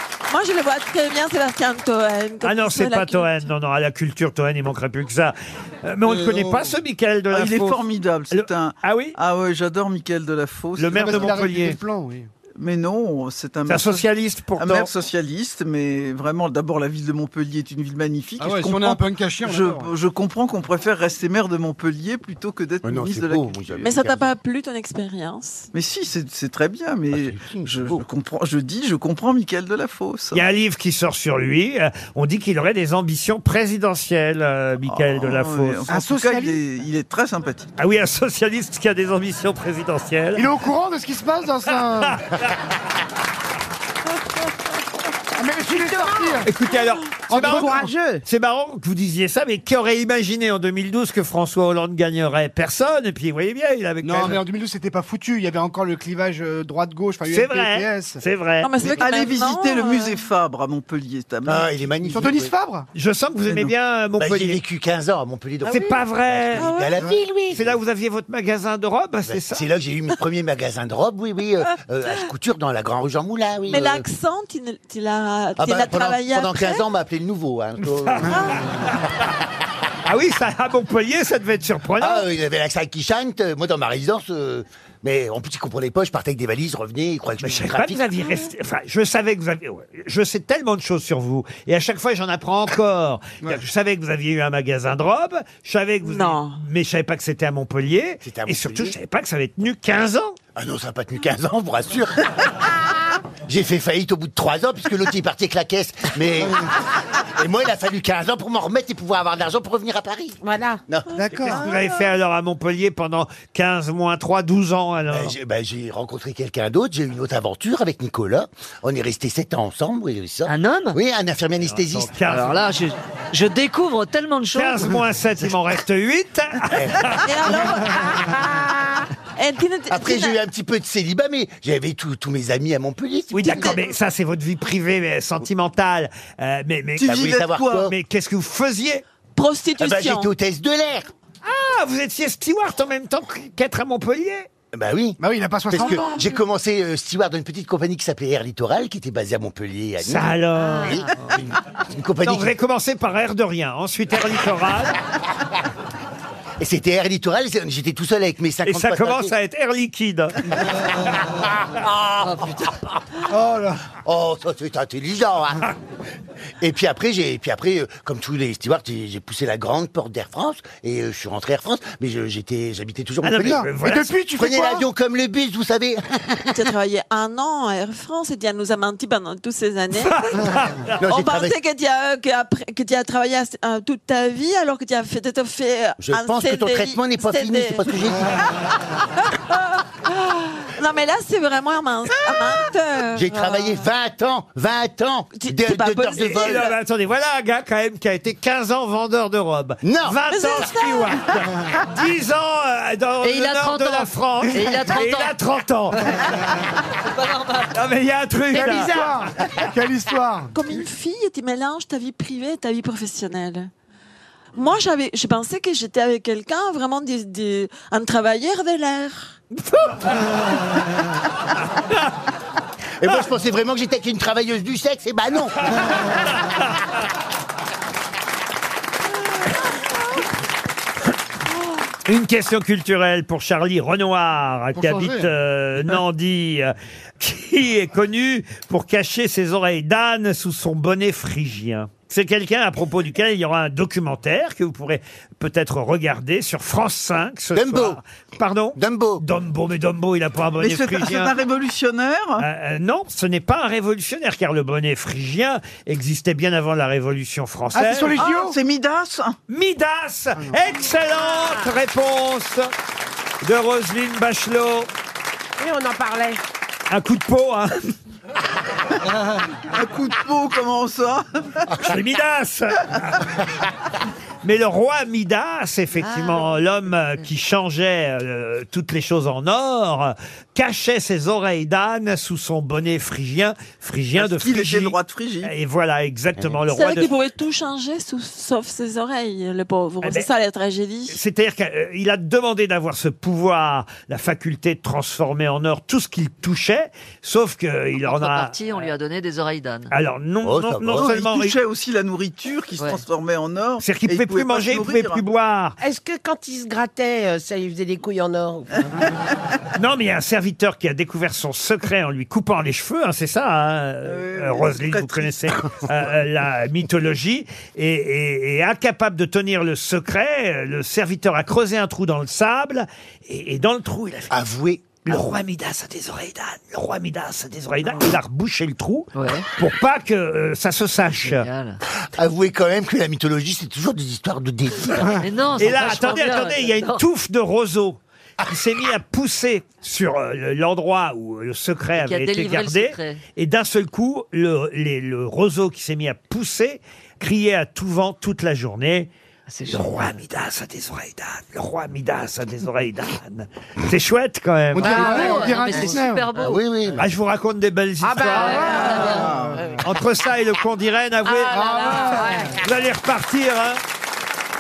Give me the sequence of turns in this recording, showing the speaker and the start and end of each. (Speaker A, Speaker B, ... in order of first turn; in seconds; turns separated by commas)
Speaker A: 0.3-3.5, Speaker B: 2.4-9.2, Speaker C: 7.3-11.4, Speaker B: 10.8-11.8, Speaker D: 10.9-12.3, Speaker C: 12.6-14.1, Speaker B: 13.7-14.9, Speaker C: 14.6-23.9, Speaker D: 18.4-19.9, Speaker E: 22.8-24.3, Speaker A: 23.8-25.7, Speaker C: 25.7-30.5, Speaker E: 27.1-28.0, Speaker B: 30.3-35.9, Speaker C: 34.9-37.7, Speaker D: 35.9-36.6, Speaker B: 37.8-40.5, Speaker D: 40.4-42.2, Speaker B: 42.0-42.5, Speaker D: 45.4-46.5, Speaker F: 45.6-46.5, Speaker B: 46.4-54.4, Speaker D: 47.3-47.9, Speaker F: 47.3-48.2, Speaker D: 54.0-58.2, Speaker B: 57.3-58.9, Speaker A: 58.6-60.2, Speaker C: 58.9-61.9, Speaker E: 61.5-62.5, Speaker D: 62.1-62.9, Speaker B: 62.9-64.6, Speaker E: 64.2-67.8, Speaker B: 65.7-66.8, Speaker A: 66.5-67.0, Speaker B: 67.5-69.7, Speaker E: 69.3-74.0, Speaker A: 73.7-76.8, Speaker E: 75.6-78.6, Speaker B: 78.0-79.1, Speaker A: 78.3-78.6, Speaker B: 80.0-82.3, Speaker E: 82.0-88.0, Speaker B: 87.4-100.4, Speaker A: 96.0-96.6, Speaker E: 98.2-99.0, Speaker E: 100.5-102.3, Speaker E: 103.5-106.7, Speaker E: 107.4-111.5, Speaker F: 110.4-110.8, Speaker D: 111.1-111.7, Speaker A: 111.4-111.8, Speaker B: 111.4-115.3, Speaker E: 115.1-122.1, Speaker G: 120.5-121.0, Speaker B: 121.7-122.6, Speaker G: 122.2-125.0, Speaker B: 124.5-127.2, Speaker E: 126.7-127.1, Speaker A: 127.2-128.1, Speaker F: 128.1-129.0, Speaker A: 129.4-130.4, Speaker E: 129.9-133.8, Speaker B: 133.3-139.0, Speaker C: 137.0-137.9, Speaker E: 137.0-137.9, Speaker A: 139.4-140.3, Speaker E: 139.8-141.1, Speaker B: 141.4-144.5, Speaker E: 144.7-145.2, Speaker D: 145.2-146.2, Speaker E: 145.7-151.4, Speaker B: 150.0-151.1, Speaker E: 151.9-152.5, Speaker B: 152.2-154.9, Speaker E: 156.6-159.3, Speaker B: 158.7-160.5, Speaker E: 161.7-162.9, Speaker G: 162.2-162.7, Speaker D: 163.3-163.8, Speaker E: 164.0-165.7, Speaker E: 166.6-173.7, Speaker B: 173.2-174.1, Speaker D: 173.4-174.9, Speaker E: 174.4-176.5, Speaker A: 176.5-180.3, Speaker B: 180.0-180.9, Speaker E: 181.0-181.6, Speaker A: 181.1-188.0, Speaker E: 186.0-188.4, Speaker A: 189.2-193.8, Speaker E: 193.1-196.7, Speaker A: 195.4-196.8, Speaker B: 196.2-206.1, Speaker E: 199.8-200.2, Speaker A: 200.3-201.3, Speaker G: 203.2-205.4, Speaker D: 204.6-204.9, Speaker G: 206.0-206.3, Speaker G: 206.9-207.8, Speaker B: 207.7-209.0, Speaker F: 208.5-209.3, Speaker D: 208.5-210.5, Speaker A: 210.5-213.7, Speaker A: 214.6-219.4, Speaker B: 219.7-220.1, Speaker E: 223.0-226.1, Speaker B: 232.1-251.3, Speaker D: 234.7-235.3, Speaker E: 247.6-248.0, Speaker E: 248.8-249.2, Speaker C: 250.6-252.5, Speaker B: 252.4-258.2, Speaker D: 257.7-258.6, Speaker C: 258.2-259.4, Speaker B: 259.5-262.7, Speaker B: 263.4-264.9, Speaker F: 265.6-266.4, Speaker B: 266.9-267.8, Speaker C: 269.7-271.9, Speaker B: 271.8-273.2, Speaker B: 274.4-287.1, Speaker G: 276.0-276.6, Speaker C: 284.1-285.5, Speaker A: 286.7-291.2, Speaker B: 291.1-298.6, Speaker G: 298.0-299.9, Speaker B: 299.9-301.6, Speaker E: 300.4-301.1, Speaker C: 300.9-305.2, Speaker B: 303.8-305.8, Speaker F: 305.8-309.0, Speaker B: 309.8-324.3, Speaker C: 314.0-315.8, Speaker E: 324.3-325.1, Speaker B: 325.0-331.5, Speaker G: 329.1-329.5, Speaker G: 331.1-331.8, Speaker E: 332.1-335.3, Speaker G: 335.2-337.1, Speaker B: 335.6-349.1, Speaker G: 341.9-343.2, Speaker G: 349.5-350.1, Speaker B: 349.7-355.6, Speaker D: 354.7-356.3, Speaker G: 354.8-356.8, Speaker E: 356.4-357.1, Speaker B: 357.0-359.0, Speaker F: 358.0-359.3, Speaker D: 358.2-359.8, Speaker G: 358.5-359.3, Speaker B: 359.8-362.1, Speaker F: 361.2-362.6, Speaker D: 361.5-362.6, Speaker B: 362.6-363.8